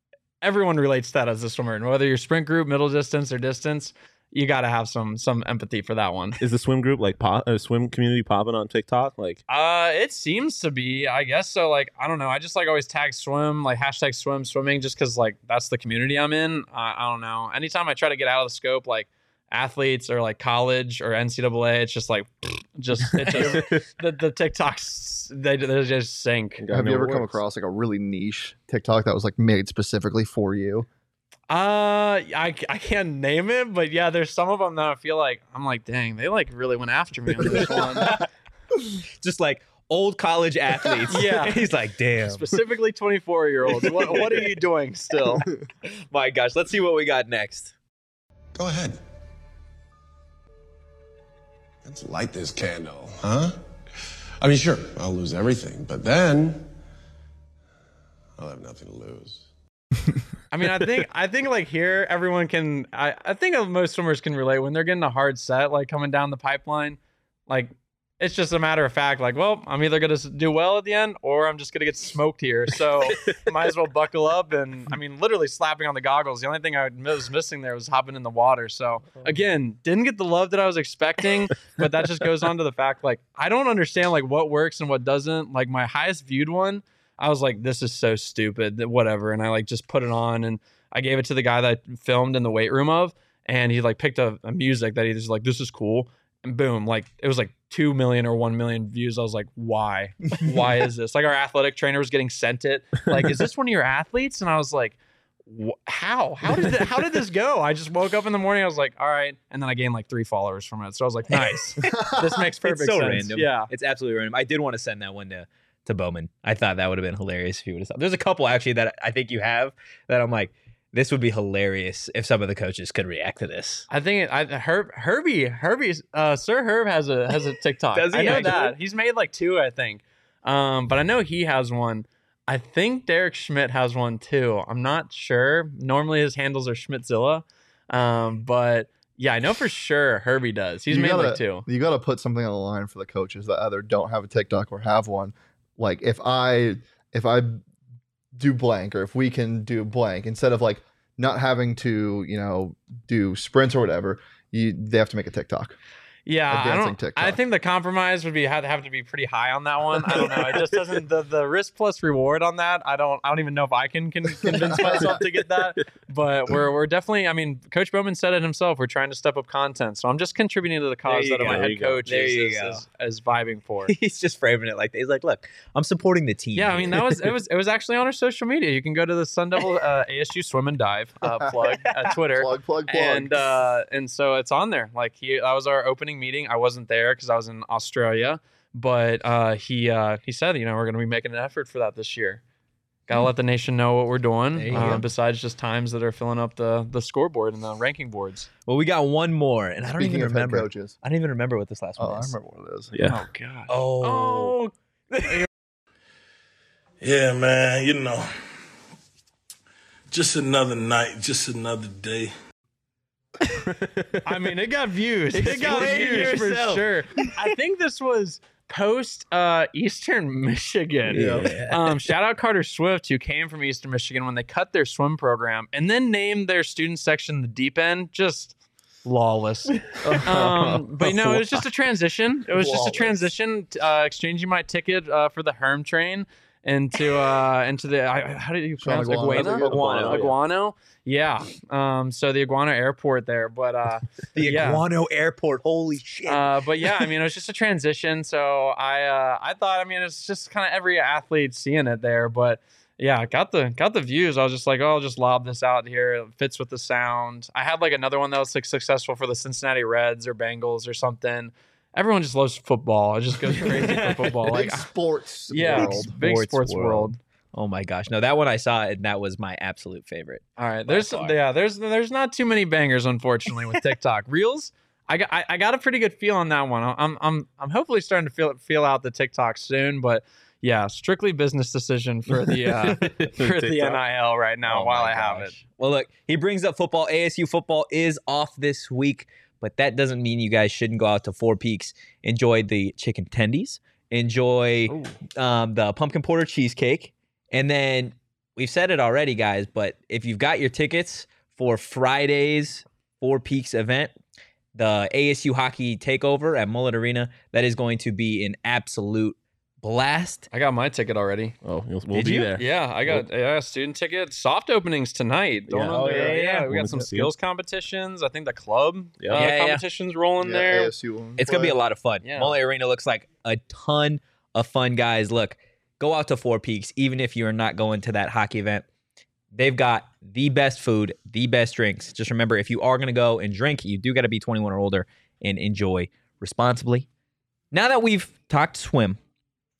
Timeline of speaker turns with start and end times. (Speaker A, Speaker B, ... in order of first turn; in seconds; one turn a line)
Speaker A: 0.4-6.4
Speaker B: 6.4-9.4
Speaker A: 9.5-26.6
Speaker B: 23.2-23.8
Speaker B: 26.6-27.4
Speaker C: 26.7-30.9
Speaker A: 31.5-38.2
Speaker C: 37.4-38.2
Speaker D: 37.5-38.2
Speaker D: 39.2-42.5
Speaker A: 41.1-41.7
Speaker A: 42.2-45.5
Speaker D: 43.9-44.3
Speaker D: 45.8-47.7
Speaker E: 48.5-49.0
Speaker E: 51.8-53.6
Speaker E: 54.4-56.7
Speaker E: 58.4-59.5
Speaker A: 60.5-113.7
Speaker D: 111.3-123.9
Speaker C: 111.8-112.2
Speaker A: 123.9-141.6
Speaker D: 127.9-128.8
Speaker C: 140.9-147.6
Speaker C: 148.3-155.8
Speaker A: 156.2-173.9
Speaker C: 156.5-157.4
Speaker C: 164.4-165.2
Speaker D: 171.1-172.8
Speaker B: 171.4-172.0
Speaker D: 173.9-177.3
Speaker A: 176.5-192.4
Speaker C: 182.3-183.5
Speaker A: 193.1-198.5
Speaker D: 194.5-195.1
Speaker D: 198.7-202.3
Speaker C: 200.0-200.9
Speaker C: 202.0-202.9
Speaker B: 202.9-203.2
Speaker A: 203.0-204.7
Speaker D: 203.7-204.6
Speaker D: 205.1-205.4
Speaker F: 207.0-208.3
Speaker F: 210.1-212.3
Speaker B: 213.5-214.2
Speaker A: 214.2-244.8
Speaker D: 215.3-216.8
Speaker B: 215.4-216.4
Speaker B: 221.1-221.8
Speaker D: 221.2-221.7
Speaker B: 230.0-231.4
Speaker C: 232.5-233.3
Speaker C: 238.8-240.2
Speaker D: 239.3-240.3
Speaker B: 239.6-240.3
Speaker D: 244.3-246.6
Speaker A: 246.2-264.9
Speaker D: 263.6-264.2
Speaker C: 264.4-266.1
Speaker A: 265.5-267.2
Speaker D: 265.6-271.4
Speaker A: 270.6-285.6
Speaker B: 282.5-284.0
Speaker D: 284.6-304.1
Speaker D: 304.7-310.5
Speaker A: 310.5-311.5
Speaker B: 311.6-313.2
Speaker D: 312.1-312.5
Speaker A: 312.6-320.9
Speaker B: 315.7-317.3
Speaker D: 315.8-316.7
Speaker B: 319.2-319.4
Speaker D: 319.3-319.8
Speaker C: 320.4-321.8
Speaker D: 321.4-328.9
Speaker A: 322.2-322.6
Speaker D: 329.5-337.1
Speaker D: 337.7-339.2